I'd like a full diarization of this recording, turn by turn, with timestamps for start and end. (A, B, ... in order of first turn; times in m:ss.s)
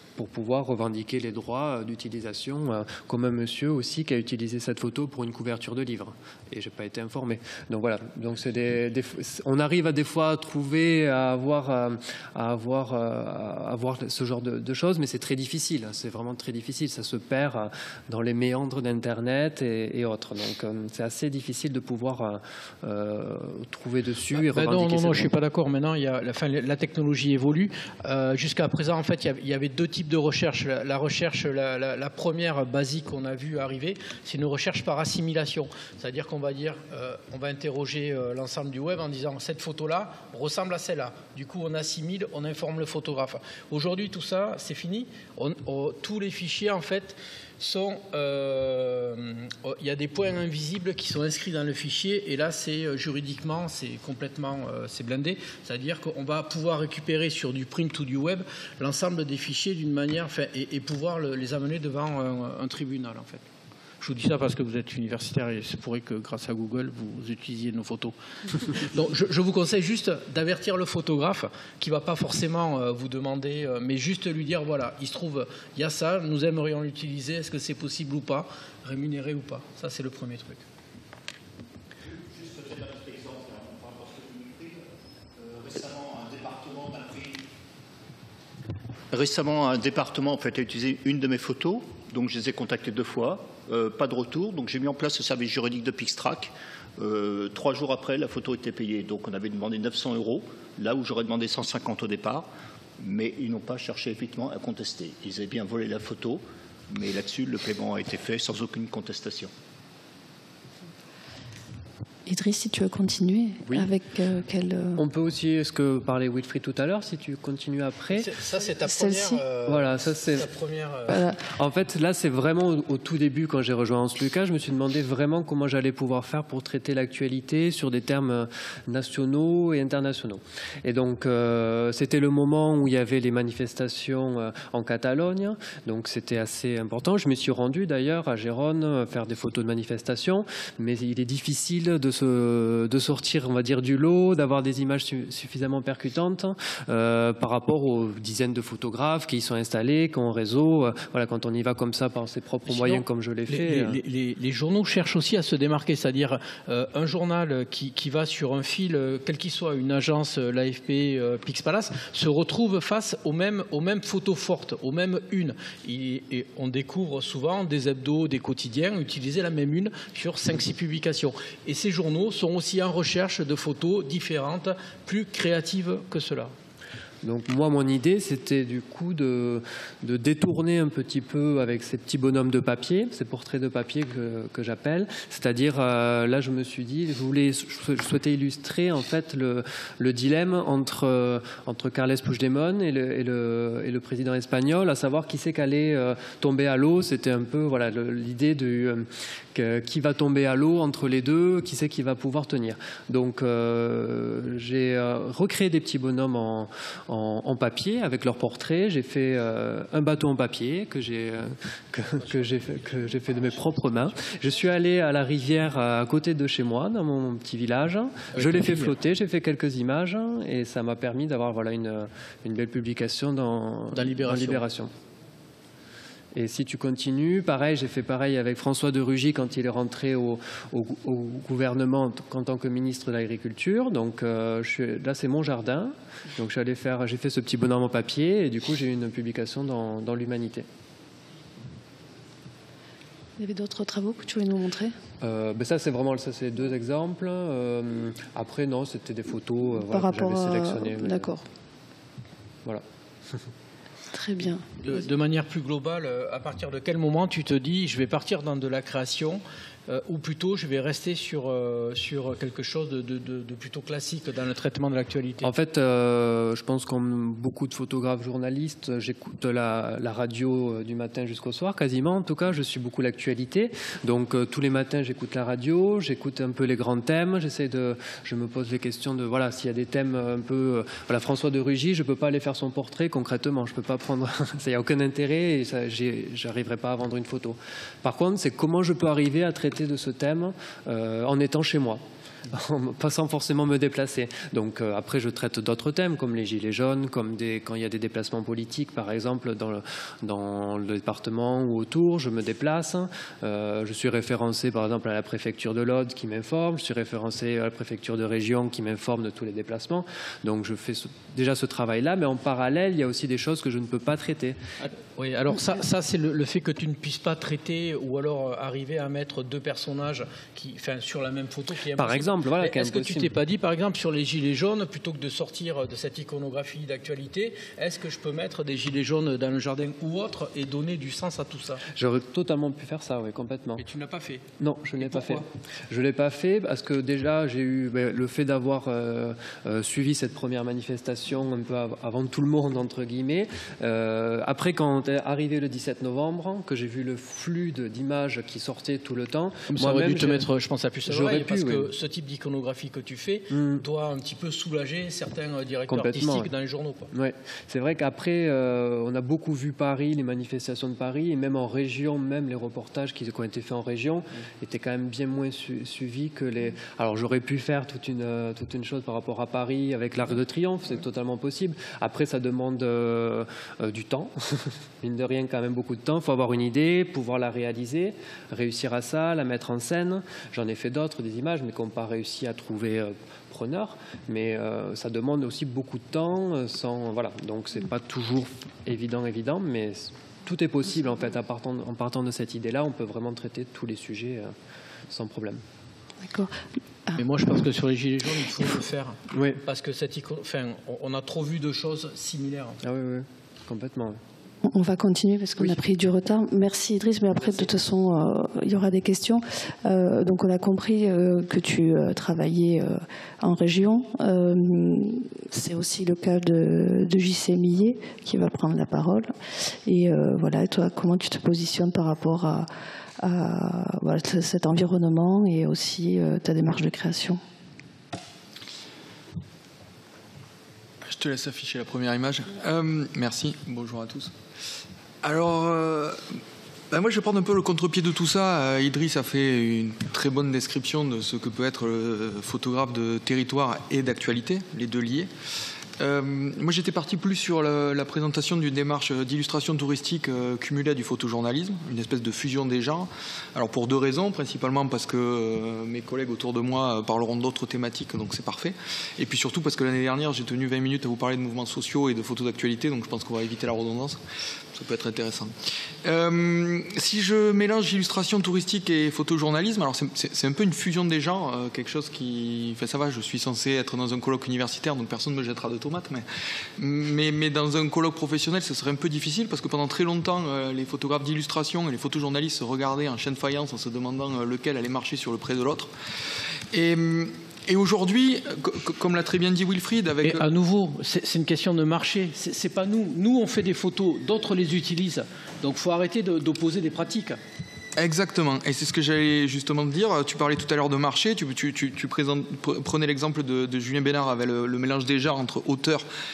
0:00.2-0:25.3 A
0:24.3-1:03.4 B
1:04.0-1:20.6 B
1:22.1-1:24.8 C
1:25.4-1:27.4 C
1:29.1-1:49.5 C
1:52.3-1:55.0 D
1:55.0-1:58.4 A
1:58.2-2:01.2 B
1:58.8-1:59.4 D
1:59.7-2:00.5 A
2:01.4-2:34.0 A
2:32.7-2:56.5 B
2:57.2-3:44.9 A
3:32.2-3:34.4 B
3:38.4-3:38.9 B
3:43.9-3:44.6 B
3:46.3-4:00.7 A
4:03.4-4:05.0 D
4:05.2-4:11.3 A
4:09.9-4:11.4 D
4:14.1-4:14.7 D
4:14.8-4:25.5 B
4:25.4-5:14.6 A
5:14.8-5:31.8 B
5:22.0-5:23.3 A
5:31.9-5:33.8 A
5:33.8-5:35.4 B
5:34.6-5:50.5 A
5:49.7-5:57.1 B
5:51.1-5:51.9 A
5:53.5-5:53.8 A
5:55.9-5:56.5 A
5:57.1-6:34.5 A
6:35.1-6:35.6 A
6:36.2-6:36.5 D
6:37.2-6:42.8 B
6:39.3-6:39.6 A
6:42.8-6:44.2 A
6:44.6-6:59.3 D
6:47.4-6:47.7 B
6:59.9-7:02.7 D
7:03.2-7:07.4 D
7:11.0-7:14.3 E
7:15.2-7:16.2 E
7:16.9-7:25.3 E
7:26.0-7:44.2 E
7:44.7-7:45.5 E
7:46.0-7:56.3 E
7:56.8-8:05.9 E
8:06.7-8:10.5 E
8:10.2-8:17.4 B
8:18.0-8:26.1 E